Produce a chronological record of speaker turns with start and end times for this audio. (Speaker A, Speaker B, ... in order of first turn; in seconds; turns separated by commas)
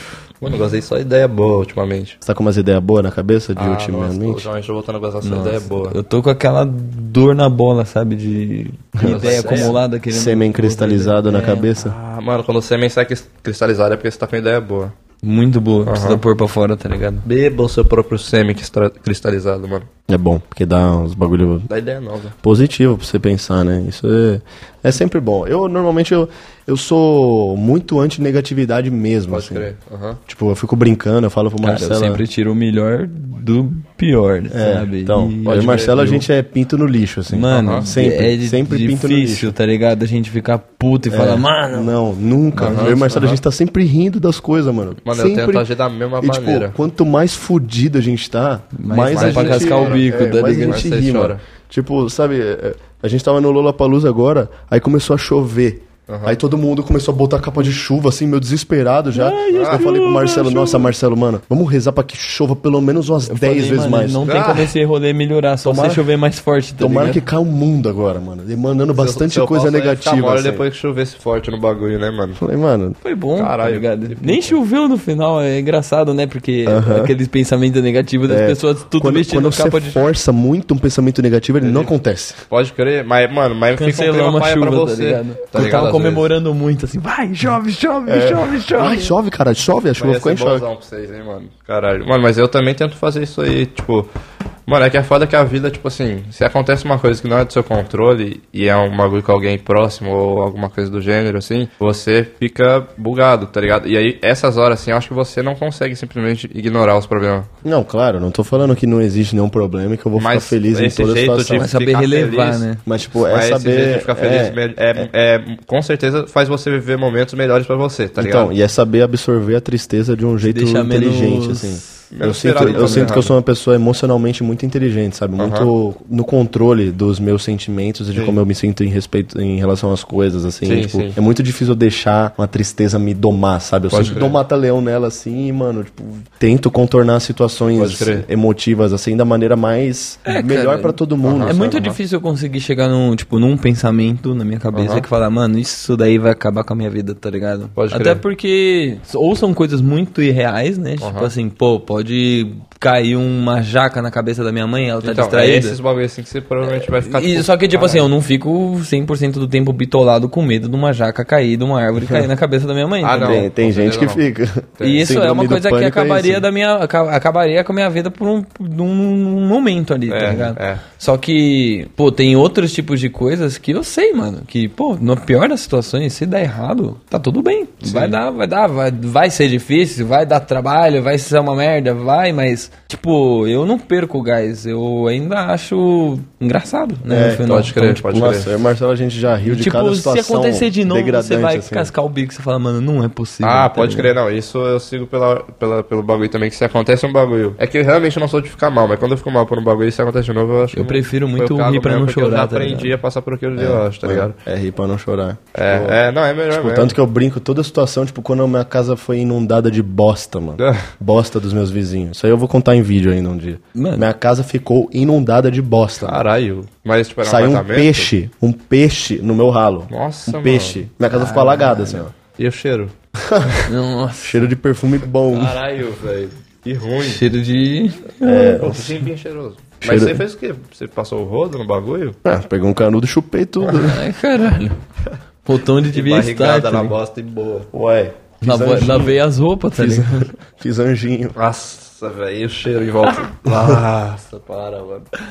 Speaker A: 0.4-2.2, Speaker B: 2.2-4.5, Speaker A: 3.6-6.0, Speaker C: 5.2-11.7, Speaker B: 8.9-11.9, Speaker A: 9.0-9.8, Speaker A: 11.7-14.9, Speaker C: 15.2-17.3, Speaker A: 15.9-16.2, Speaker A: 17.2-19.9, Speaker B: 20.1-21.7, Speaker A: 21.7-22.4, Speaker B: 22.4-29.7, Speaker A: 29.3-30.2, Speaker B: 30.3-32.2, Speaker C: 31.6-36.2, Speaker B: 34.5-39.5, Speaker A: 35.5-36.2, Speaker C: 37.3-42.0, Speaker A: 37.5-37.9, Speaker B: 41.1-45.7, Speaker C: 42.5-43.0, Speaker A: 42.6-43.4, Speaker A: 45.0-46.8, Speaker B: 46.2-64.2, Speaker C: 48.8-50.8, Speaker A: 49.1-51.4, Speaker A: 56.1-56.4, Speaker C: 59.1-60.9, Speaker A: 59.5-59.8, Speaker C: 63.3-67.2, Speaker A: 64.2-64.7, Speaker B: 65.6-66.1, Speaker B: 66.8-70.6, Speaker A: 69.0-72.4, Speaker B: 72.4-73.0, Speaker C: 73.0-80.1, Speaker A: 73.4-74.6, Speaker B: 76.7-77.1, Speaker B: 78.3-82.4, Speaker A: 81.6-81.9, Speaker A: 82.5-86.3, Speaker C: 83.8-89.1, Speaker B: 88.1-90.7, Speaker A: 90.0-94.1, Speaker A: 94.7-107.5, Speaker B: 107.6-111.7, Speaker A: 110.2-112.7, Speaker C: 111.6-112.8, Speaker B: 112.9-115.1, Speaker A: 113.2-118.5, Speaker B: 118.2-141.8, Speaker C: 120.4-122.1, Speaker A: 122.1-123.3, Speaker C: 122.6-123.2, Speaker A: 125.4-125.7, Speaker A: 130.7-131.2, Speaker A: 133.9-134.4, Speaker A: 137.8-138.3, Speaker C: 140.3-155.8, Speaker A: 141.2-141.9, Speaker A: 144.7-145.1, Speaker A: 147.8-148.2, Speaker A: 151.0-151.3, Speaker A: 155.0-158.1, Speaker C: 156.7-163.5, Speaker A: 163.0-164.2, Speaker B: 163.2-166.5, Speaker A: 164.8-165.1, Speaker C: 164.8-188.0, Speaker A: 170.1-170.8, Speaker A: 177.8-178.2, Speaker B: 187.1-191.9, Speaker A: 187.5-188.5, Speaker C: 189.4-194.1, Speaker A: 193.4-204.4, Speaker C: 200.7-202.9, Speaker B: 203.6-206.0, Speaker A: 205.6-207.0, Speaker B: 206.5-216.2, Speaker A: 210.6-210.9, Speaker C: 213.8-214.1, Speaker A: 216.0-218.1, Speaker B: 217.2-222.1, Speaker A: 219.9-220.8, Speaker C: 221.1-222.1, Speaker A: 222.3-222.9, Speaker B: 223.2-223.7, Speaker C: 223.7-224.4, Speaker B: 224.2-225.6, Speaker A: 225.3-227.2, Speaker C: 227.0-228.7, Speaker B: 228.2-229.0, Speaker A: 228.6-232.2, Speaker B: 229.8-230.2, Speaker B: 232.2-234.0, Speaker C: 233.7-234.8, Speaker C: 235.4-236.9, Speaker A: 235.9-237.7, Speaker B: 237.7-239.2, Speaker C: 238.4-240.3, Speaker B: 239.7-241.4, Speaker A: 241.4-245.1, Speaker B: 243.5-243.8